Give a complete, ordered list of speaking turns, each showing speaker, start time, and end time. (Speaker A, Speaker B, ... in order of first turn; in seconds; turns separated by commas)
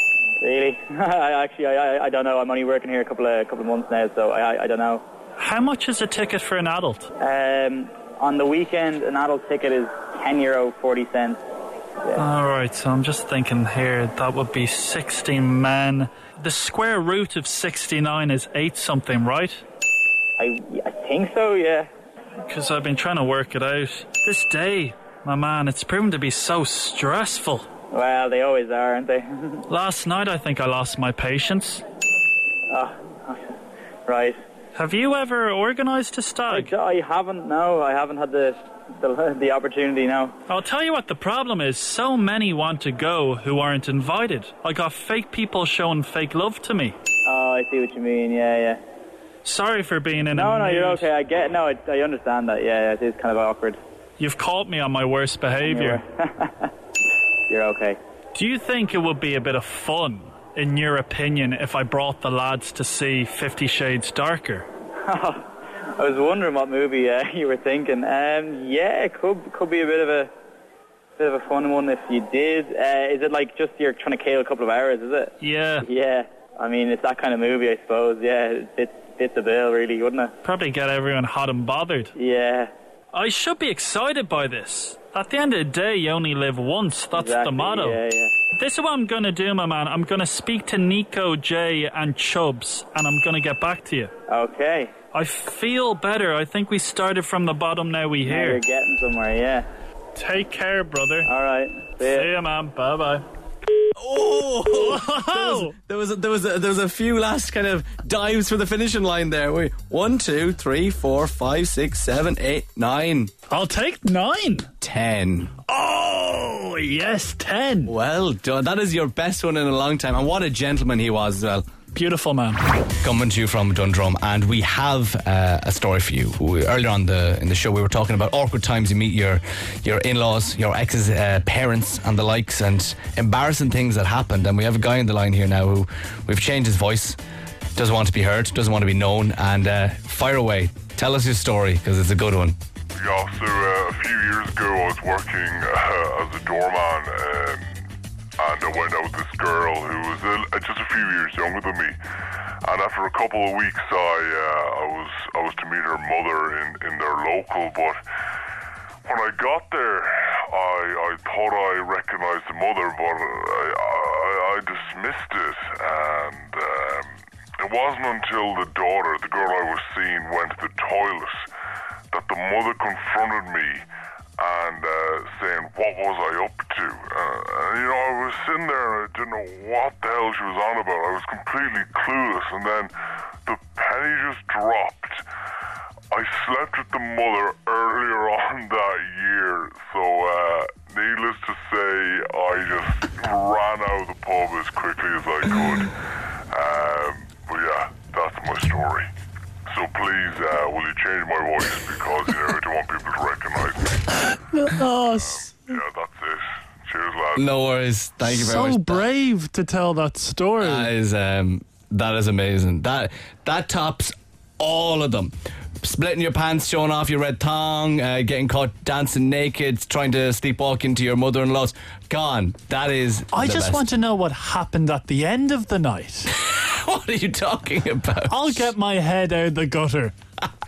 Speaker A: 0.4-5.0, Speaker B: 5.4-7.1, Speaker A: 7.2-11.4, Speaker B: 12.2-19.6, Speaker A: 20.4-21.9, Speaker B: 22.4-27.7, Speaker A: 27.9-29.6, Speaker B: 29.7-31.8, Speaker A: 32.7-33.5, Speaker A: 34.1-34.4, Speaker B: 34.7-36.7, Speaker A: 36.5-40.4, Speaker B: 40.5-47.0, Speaker A: 47.2-48.8, Speaker B: 49.4-51.0, Speaker A: 50.3-53.8, Speaker B: 54.2-56.0, Speaker A: 55.6-56.7, Speaker A: 57.5-58.0, Speaker B: 58.3-64.7, Speaker A: 65.0-70.3, Speaker A: 71.2-80.3, Speaker B: 75.4-75.9, Speaker B: 80.4-82.1, Speaker A: 82.2-82.7, Speaker B: 83.1-88.0, Speaker A: 87.1-88.3, Speaker B: 88.5-94.1, Speaker A: 94.3-94.9, Speaker B: 95.1-98.6, Speaker A: 98.2-99.7, Speaker B: 100.1-101.3, Speaker A: 101.2-102.3, Speaker B: 102.0-103.2, Speaker C: 103.9-113.3, Speaker B: 104.7-105.8, Speaker B: 113.5-114.7, Speaker C: 114.8-115.5, Speaker B: 115.7-117.9, Speaker C: 117.9-121.6, Speaker B: 121.9-122.6, Speaker C: 123.0-137.2, Speaker C: 137.7-142.6, Speaker D: 143.0-147.9, Speaker D: 148.4-151.9, Speaker D: 152.6-158.0, Speaker D: 159.1-171.5, Speaker D: 172.1-173.9, Speaker D: 174.4-182.9, Speaker D: 183.4-185.2, Speaker D: 186.1-195.9, Speaker D: 196.5-199.1, Speaker D: 199.7-204.0, Speaker B: 204.3-205.8, Speaker D: 205.1-207.5, Speaker C: 207.4-209.1, Speaker B: 208.2-210.9, Speaker C: 210.6-223.8, Speaker B: 223.3-226.3, Speaker C: 226.3-228.6, Speaker B: 228.3-230.1